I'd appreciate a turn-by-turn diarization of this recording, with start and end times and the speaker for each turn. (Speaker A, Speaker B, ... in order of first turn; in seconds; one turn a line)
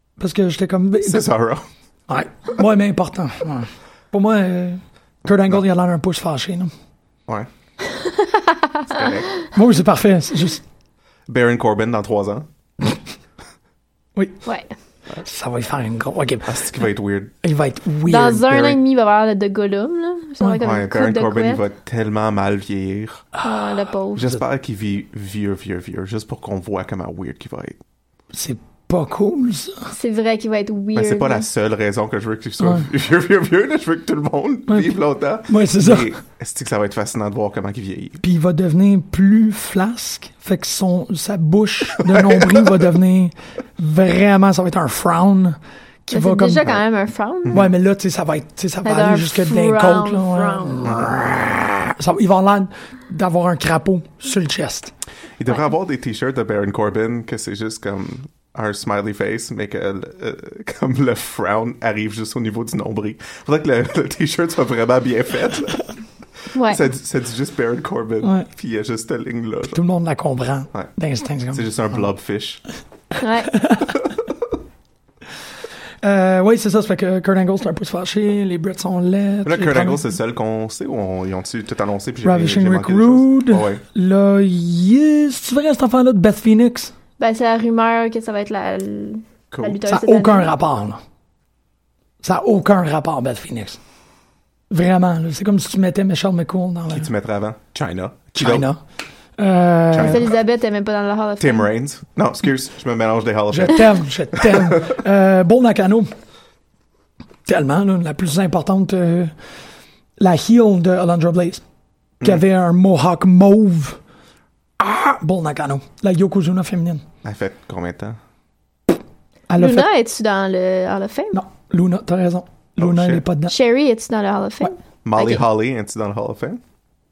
Speaker A: 0.2-1.3
Speaker B: 1.0-1.6
Speaker A: 2.1-6.7
Speaker C: 8.2-8.6
Speaker B: 8.9-9.3
Speaker A: 9.5-10.6
Speaker B: 11.3-12.5
Speaker A: 14.2-14.4
Speaker C: 14.4-14.7
Speaker A: 15.1-16.7
Speaker B: 16.4-17.3
Speaker A: 17.4-18.7
Speaker C: 18.1-21.6
Speaker B: 20.6-23.2
Speaker C: 23.4-24.3
Speaker B: 24.1-27.8
Speaker A: 28.3-29.9
Speaker C: 29.9-31.4
Speaker B: 30.9-38.2
Speaker A: 32.6-32.9
Speaker A: 34.7-34.9
Speaker A: 35.5-36.1
Speaker A: 38.2-46.8
Speaker C: 46.1-47.6
Speaker A: 47.5-54.9
Speaker C: 48.8-50.9
Speaker B: 55.4-65.9
Speaker C: 66.5-66.8
Speaker B: 66.7-69.8
Speaker A: 68.2-68.5
Speaker A: 69.7-72.0
Speaker B: 71.5-72.6
Speaker C: 73.2-73.5
Speaker A: 73.5-73.9
Speaker A: 76.0-80.1
Speaker B: 79.4-83.8
Speaker A: 82.2-86.9
Speaker C: 87.2-90.5
Speaker B: 89.5-89.8
Speaker A: 89.9-91.0
Speaker A: 92.2-93.8
Speaker A: 94.7-97.1
Speaker B: 96.9-98.7
Speaker A: 98.3-98.8
Speaker A: 99.4-100.2
Speaker B: 99.9-100.3
Speaker C: 100.0-101.7
Speaker B: 101.4-104.7
Speaker A: 103.5-106.1
Speaker A: 107.5-109.3
Speaker A: 110.2-111.6
Speaker A: 112.2-114.0
Speaker A: 114.8-117.0
Speaker B: 117.2-118.2
Speaker A: 119.5-119.9
Speaker C: 119.6-121.4
Speaker A: 121.3-123.5
Speaker B: 122.8-123.2
Speaker C: 123.5-125.4
Speaker B: 125.0-126.6